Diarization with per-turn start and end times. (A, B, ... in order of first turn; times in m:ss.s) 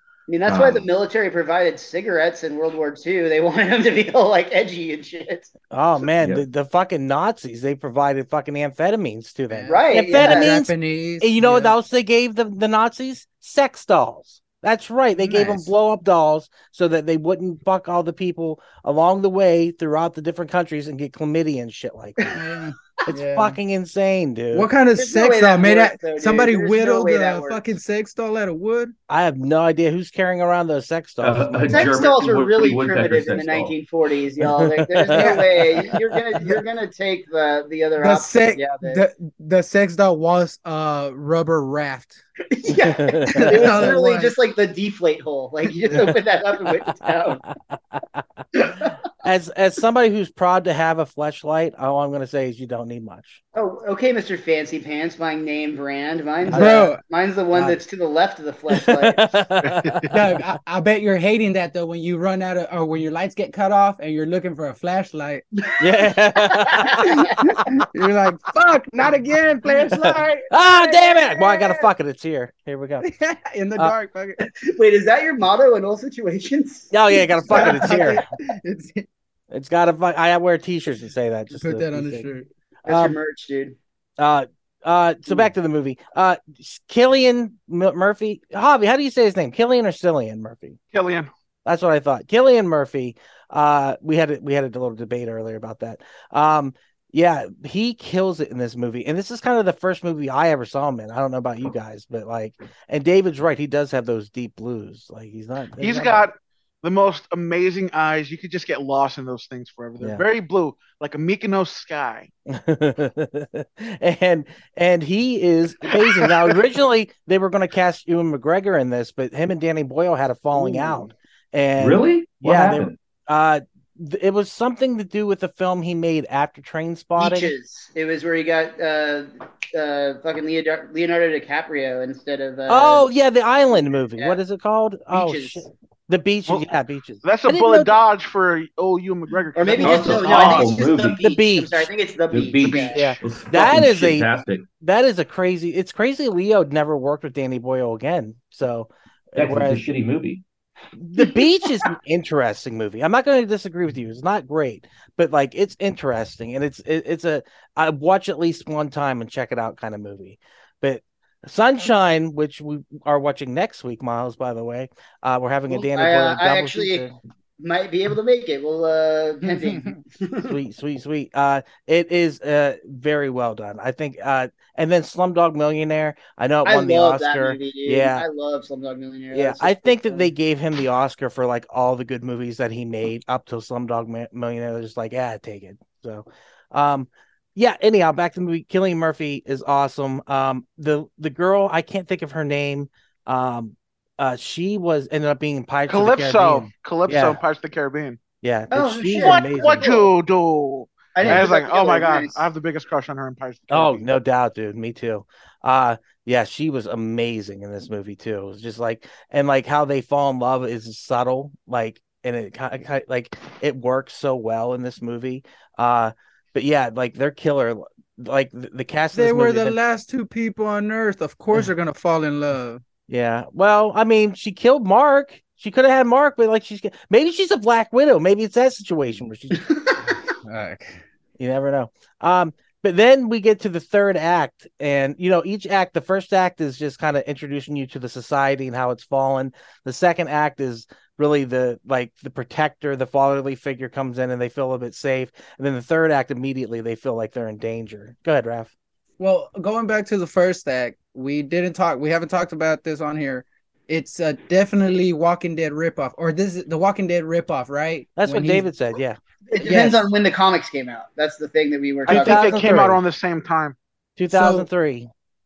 0:00.3-0:05.5 A
0:00.4-0:00.9 B
0:05.7-0:22.2 C
0:06.2-0:06.4 B
0:09.5-0:11.7 D
0:09.7-0:10.6 A
0:15.2-0:15.7 D
0:22.3-0:23.6 D
0:23.1-0:24.7 C
0:24.5-0:28.9 D
0:24.9-0:27.8 A
0:29.1-0:31.9 C
0:31.2-0:33.7 B
0:31.7-0:39.0 A
0:34.4-0:35.4 C
0:35.1-0:35.9 D
0:38.0-0:42.2 D
0:42.5-0:47.4 A
0:42.8-0:43.9 C
0:43.3-0:44.3 D
0:45.8-0:46.2 D
0:48.5-0:48.9 A
0:49.2-0:53.4 C
0:53.5-0:59.2 A
0:56.5-0:57.0 D
0:58.8-1:00.1 C
0:59.6-1:00.0 E
1:00.1-1:05.4 D
1:05.8-1:07.2 C
1:06.4-1:07.2 A
1:07.4-1:11.9 D
1:10.5-1:13.0 C
1:13.0-1:14.4 D
1:14.4-1:17.0 A
1:16.9-1:18.2 C
1:17.1-1:19.0 D
1:17.5-1:18.1 A
1:19.5-1:22.3 C
1:21.5-1:22.5 D
1:22.8-1:23.8 A
1:22.8-1:23.2 C
1:24.2-1:30.8 C
1:30.9-1:31.3 E
1:31.6-1:46.2 C
1:45.8-1:52.3 E
1:50.0-1:50.2 C
1:52.5-2:07.5 C
2:01.8-2:03.0 B
2:07.2-2:13.1 A
2:12.7-2:17.9 C
2:13.8-2:14.4 A
2:15.1-2:15.7 A
2:17.2-2:20.7 E
2:19.5-2:23.1 A
2:19.8-2:21.2 B
2:21.2-2:21.9 C
2:22.3-2:24.6 B
2:22.9-2:24.3 C
2:24.8-2:29.8 C
2:29.4-2:30.4 B
2:31.0-2:47.1 C
2:45.7-2:47.0 A
2:47.6-2:50.6 A
2:49.4-2:50.0 D
2:50.4-2:58.2 C
2:56.6-3:00.3 A
2:59.3-3:17.4 C
3:15.9-3:18.2 E
3:18.4-3:19.9 C
3:18.7-3:20.1 A
3:19.1-3:24.1 E
3:21.1-3:22.5 A
3:23.7-3:39.8 C
3:39.1-3:42.8 D
3:43.1-3:49.6 C
3:50.4-3:51.0 D
3:51.4-4:08.7 C
4:09.2-4:18.7 D
4:18.2-4:19.2 C
4:19.5-4:22.6 A
4:19.6-4:20.1 D
4:22.1-4:23.0 C
4:22.1-4:23.8 E
4:24.2-4:25.1 C
4:24.3-4:24.7 D